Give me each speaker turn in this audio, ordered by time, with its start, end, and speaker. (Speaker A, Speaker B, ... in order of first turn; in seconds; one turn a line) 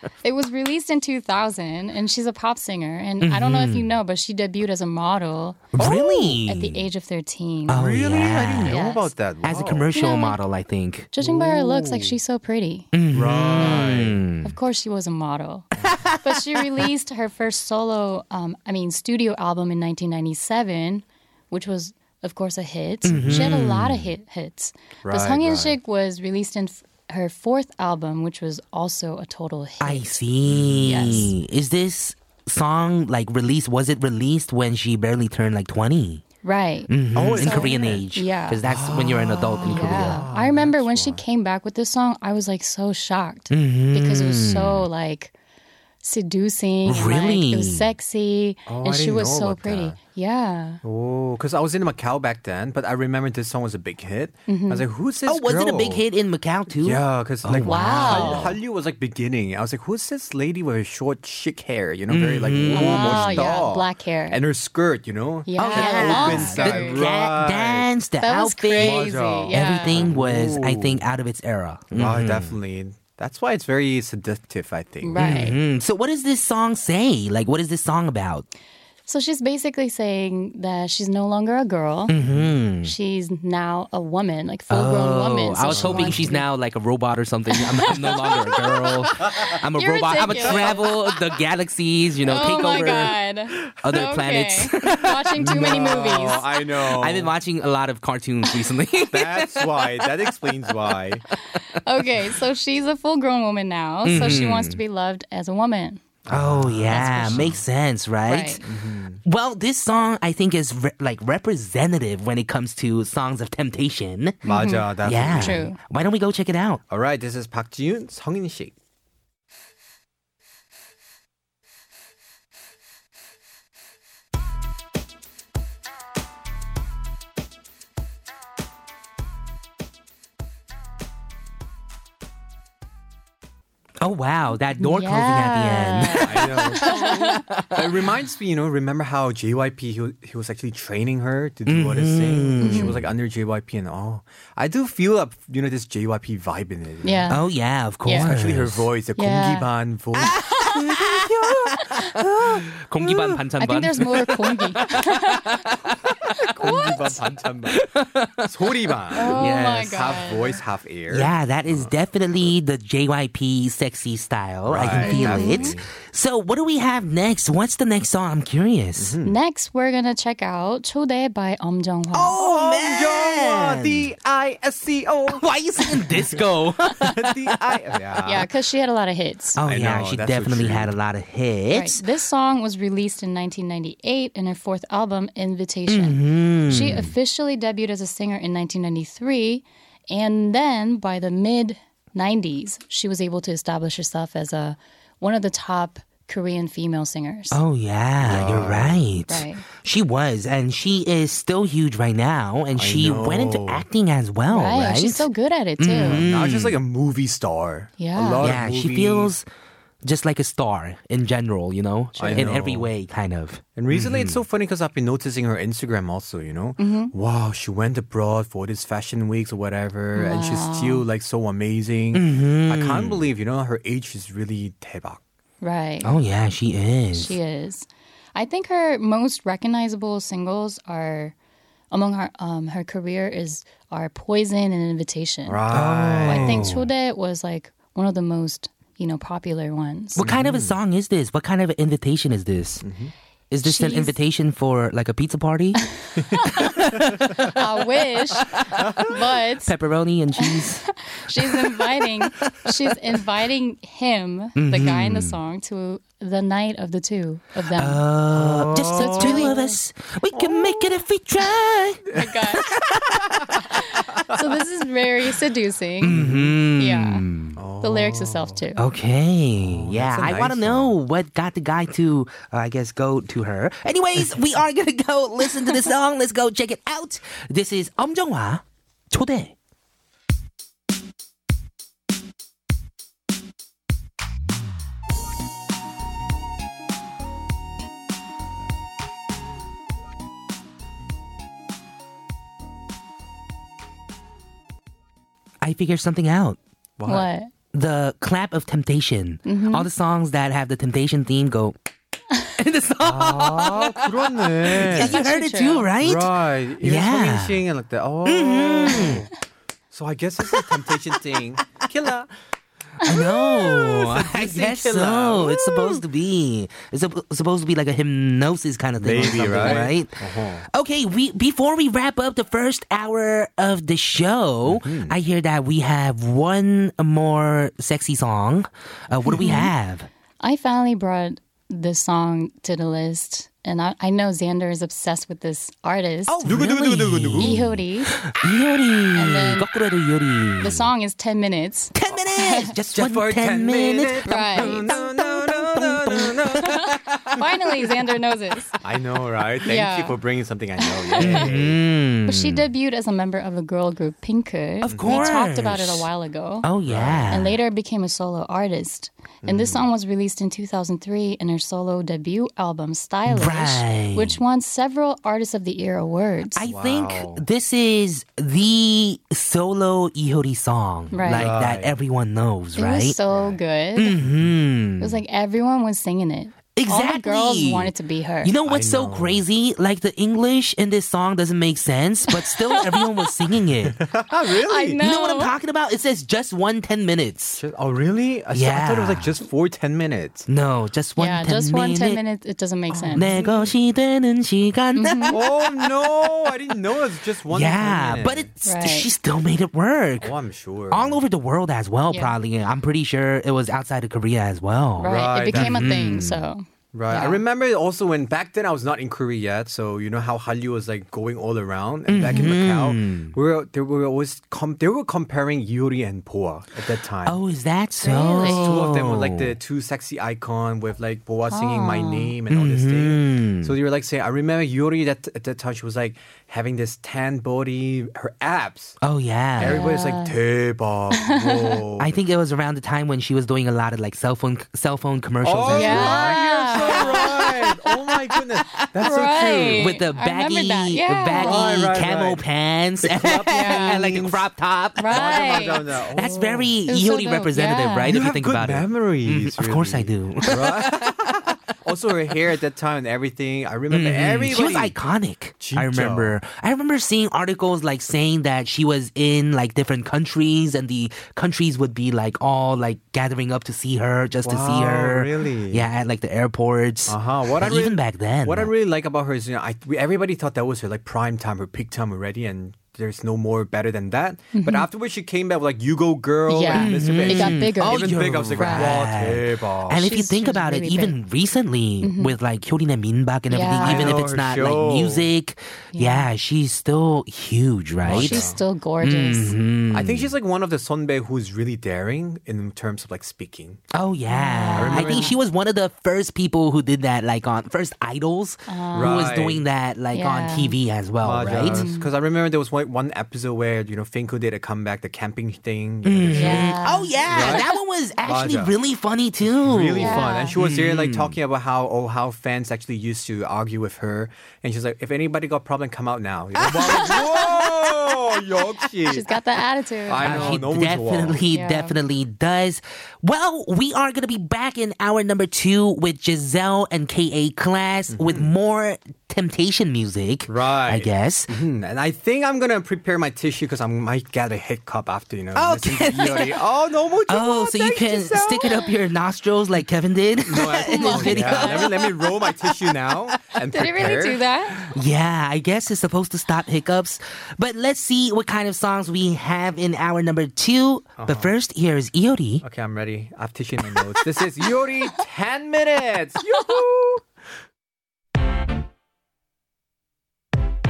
Speaker A: 0.2-7.9
Speaker B: 3.2-4.0
Speaker B: 5.7-6.8
Speaker C: 5.8-6.4
Speaker B: 7.7-8.8
Speaker C: 7.7-9.9
Speaker A: 8.6-9.1
Speaker B: 9.4-11.1
Speaker A: 9.9-10.4
Speaker A: 11.1-12.9
Speaker C: 11.2-12.2
Speaker B: 12.9-14.5
Speaker C: 13.1-14.2
Speaker A: 13.5-15.7
Speaker B: 15.8-16.8
Speaker A: 16.2-30.2
Speaker B: 23.0-24.1
Speaker C: 23.1-23.6
Speaker C: 25.0-25.8
Speaker B: 29.8-36.2
Speaker C: 30.4-31.2
Speaker A: 30.8-31.3
Speaker A: 36.4-38.6
Speaker B: 36.9-40.2
Speaker C: 37.1-38.0
Speaker C: 38.6-41.2
Speaker A: 39.6-45.3
Speaker B: 43.5-44.9
Speaker A: 46.0-50.8
Speaker B: 46.9-47.9
Speaker C: 48.7-50.0
Speaker C: 50.8-56.0
Speaker A: 54.5-54.8
Speaker B: 55.2-58.6
Speaker C: 56.7-67.9
Speaker A: 57.6-58.5
Speaker B: 62.1-63.5
Speaker A: 62.7-64.4
Speaker A: 65.5-67.0
Speaker B: 65.6-72.6
Speaker A: 68.2-70.1
Speaker C: 68.8-71.0
Speaker C: 71.9-75.5
Speaker A: 75.0-75.6
Speaker B: 75.2-78.5
Speaker A: 79.1-82.1
Speaker B: 82.1-82.9
Speaker C: 82.2-82.5
Speaker A: 82.8-86.5
Speaker B: 84.7-93.2
Speaker C: 85.6-86.3
Speaker A: 87.5-90.9
Speaker A: 92.2-96.5
Speaker B: 93.8-96.0
Speaker C: 95.4-97.3
Speaker B: 96.8-100.3
Speaker C: 99.1-101.2
Speaker A: 101.5-106.0
Speaker B: 104.0-104.8
Speaker C: 106.2-107.6
Speaker B: 106.3-114.4
Speaker A: 106.9-107.5
Speaker A: 108.2-108.6
Speaker C: 108.6-109.2
Speaker C: 114.4-115.6
Speaker A: 114.4-115.8
Speaker B: 115.0-116.8
Speaker C: 116.9-118.7
Speaker B: 134.0-138.0
Speaker A: 134.8-137.4
Speaker C: 136.2-147.2
Speaker B: 141.7-143.0
Speaker A: 142.6-143.0
Speaker A: 147.0-147.4
Speaker B: 147.3-148.9
Speaker A: 148.0-148.3
Speaker C: 148.1-153.3
Speaker A: 149.2-149.7
Speaker B: 150.2-157.2
Speaker A: 151.8-152.1
Speaker A: 153.6-155.6
Speaker C: 156.1-157.9
Speaker B: 157.7-159.8
Speaker C: 158.4-161.9
Speaker A: 159.1-160.6
Speaker B: 161.1-169.1
Speaker C: 164.7-165.8
Speaker A: 164.9-165.7
Speaker C: 169.0-169.4
Speaker A: 169.2-172.4
Speaker B: 172.1-174.1
Speaker C: 172.3-176.4
Speaker B: 175.3-177.7
Speaker C: 177.0-178.5
Speaker A: 178.2-179.6
Speaker B: 179.6-182.0
Speaker C: 179.6-180.9
Speaker A: 181.7-197.6
Speaker B: 185.9-187.1
Speaker C: 186.8-187.0
Speaker B: 197.5-205.3
Speaker C: 198.2-199.0
Speaker A: 199.3-199.6
Speaker C: 202.8-203.8
Speaker A: 204.5-206.2
Speaker B: 205.8-206.8
Speaker C: 206.0-209.3
Speaker A: 208.0-208.5
Speaker B: 208.4-209.4
Speaker B: 210.0-214.4
Speaker C: 212.2-212.9
Speaker C: 213.8-225.2
Speaker A: 216.8-217.1
Speaker A: 220.1-221.0
Speaker B: 222.1-223.3
Speaker A: 225.6-226.2
Speaker B: 226.0-227.4
Speaker A: 227.1-231.3
Speaker A: 231.9-235.6
Speaker C: 235.4-236.8
Speaker B: 235.7-236.8
Speaker A: 236.2-240.2
Speaker B: 240.1-242.8
Speaker C: 240.2-240.8
Speaker C: 242.8-243.1
Speaker B: 243.5-245.8
Speaker A: 243.6-244.2
Speaker A: 246.0-249.7
Speaker B: 246.4-247.6
Speaker C: 246.9-247.4
Speaker B: 248.4-251.6
Speaker A: 250.4-258.1
Speaker B: 254.6-255.4
Speaker B: 257.7-263.5
Speaker C: 258.3-259.6
Speaker A: 258.9-259.8
Speaker A: 262.1-262.7
Speaker C: 262.9-263.6
Speaker A: 263.7-266.2
Speaker B: 266.0-267.6
Speaker C: 266.1-266.6
Speaker A: 266.7-267.2
Speaker C: 267.6-268.6
Speaker A: 267.8-268.8
Speaker B: 268.8-279.5
Speaker C: 269.6-270.9
Speaker B: 295.6-296.6
Speaker C: 297.0-297.3
Speaker A: 297.1-297.5
Speaker B: 297.7-301.8
Speaker A: 299.4-299.9
Speaker B: 302.6-307.6
Speaker C: 303.0-305.2
Speaker A: 304.8-305.9
Speaker C: 306.0-309.3
Speaker B: 308.2-309.3
Speaker C: 309.9-312.3
Speaker B: 310.4-311.8
Speaker B: 313.0-330.1
Speaker C: 313.1-316.0
Speaker C: 319.0-320.6
Speaker C: 324.6-325.1
Speaker A: 329.3-329.7
Speaker A: 330.4-336.6
Speaker B: 336.3-337.7
Speaker C: 336.4-337.7
Speaker A: 337.4-338.2
Speaker B: 338.2-340.9
Speaker A: 339.1-339.7
Speaker A: 340.6-342.7
Speaker B: 341.9-347.5
Speaker C: 342.9-346.8
Speaker A: 344.2-345.0
Speaker A: 346.6-348.8
Speaker C: 348.8-351.8
Speaker A: 349.6-350.2
Speaker A: 350.8-351.5
Speaker B: 351.2-352.7
Speaker A: 352.2-356.7
Speaker B: 354.8-356.1
Speaker C: 354.8-355.4
Speaker B: 356.6-357.6
Speaker C: 356.8-357.4
Speaker A: 357.3-366.6
Speaker C: 359.4-359.9
Speaker B: 363.2-364.4
Speaker B: 366.6-373.2
Speaker C: 366.6-367.4
Speaker A: 371.1-371.5
Speaker C: 371.2-372.0
Speaker A: 372.8-374.1
Speaker C: 373.3-373.6
Speaker B: 373.9-375.2
Speaker C: 374.2-374.5
Speaker A: 375.0-378.6
Speaker B: 376.8-383.9
Speaker C: 378.6-379.4
Speaker A: 382.4-383.3
Speaker C: 383.8-385.0
Speaker A: 384.5-385.5
Speaker B: 384.9-387.6
Speaker C: 387.6-390.5
Speaker B: 388.5-389.3
Speaker B: 390.5-392.2
Speaker A: 391.1-393.4
Speaker C: 392.9-393.7
Speaker B: 393.1-396.5
Speaker A: 394.9-395.4
Speaker C: 395.3-398.5
Speaker B: 397.4-400.3
Speaker A: 398.6-399.1
Speaker C: 400.2-401.2
Speaker B: 400.9-406.4
Speaker C: 405.0-406.4
Speaker A: 405.0-407.4
Speaker C: 406.9-417.4
Speaker B: 412.1-413.3
Speaker B: 417.2-419.5
Speaker A: 418.0-418.8
Speaker C: 418.4-429.0
Speaker A: 421.5-422.4
Speaker B: 422.5-423.8
Speaker B: 429.0-429.8
Speaker C: 429.6-432.1
Speaker A: 429.6-430.4
Speaker A: 431.2-431.8
Speaker B: 432.0-437.6
Speaker C: 435.4-439.9
Speaker A: 435.7-437.5
Speaker B: 438.8-439.1
Speaker A: 438.9-441.8
Speaker B: 439.7-451.6
Speaker C: 441.3-442.4
Speaker C: 443.0-444.4
Speaker A: 443.4-444.1
Speaker A: 444.9-445.9
Speaker C: 445.1-446.7
Speaker A: 446.8-448.2
Speaker C: 448.1-454.9
Speaker B: 453.9-468.7
Speaker C: 455.6-456.3
Speaker C: 464.4-465.9
Speaker C: 467.1-480.1
Speaker A: 474.5-474.9
Speaker A: 476.5-479.0
Speaker B: 476.7-490.3
Speaker A: 480.0-481.2
Speaker A: 482.0-482.4
Speaker A: 483.5-484.2
Speaker C: 483.7-485.3
Speaker A: 485.9-486.3
Speaker C: 488.0-488.6
Speaker A: 488.1-489.6
Speaker C: 489.9-493.8
Speaker B: 493.9-501.9
Speaker A: 494.3-495.3
Speaker C: 494.8-495.3
Speaker A: 498.7-499.4
Speaker C: 498.9-499.6
Speaker A: 500.1-500.8
Speaker C: 501.2-507.7
Speaker A: 501.6-502.1
Speaker B: 506.0-511.4
Speaker A: 506.3-507.8
Speaker C: 508.2-508.8
Speaker C: 509.4-519.3
Speaker A: 509.9-510.5
Speaker B: 516.6-517.3
Speaker A: 519.0-520.6
Speaker C: 520.1-521.4
Speaker B: 520.2-531.5
Speaker A: 521.5-522.0
Speaker C: 528.1-528.5
Speaker C: 530.5-538.9
Speaker B: 535.5-536.6
Speaker B: 537.3-543.3
Speaker C: 540.5-544.4
Speaker A: 540.8-542.0
Speaker A: 543.7-544.8
Speaker B: 544.8-552.6
Speaker C: 551.2-551.5
Speaker C: 552.6-557.2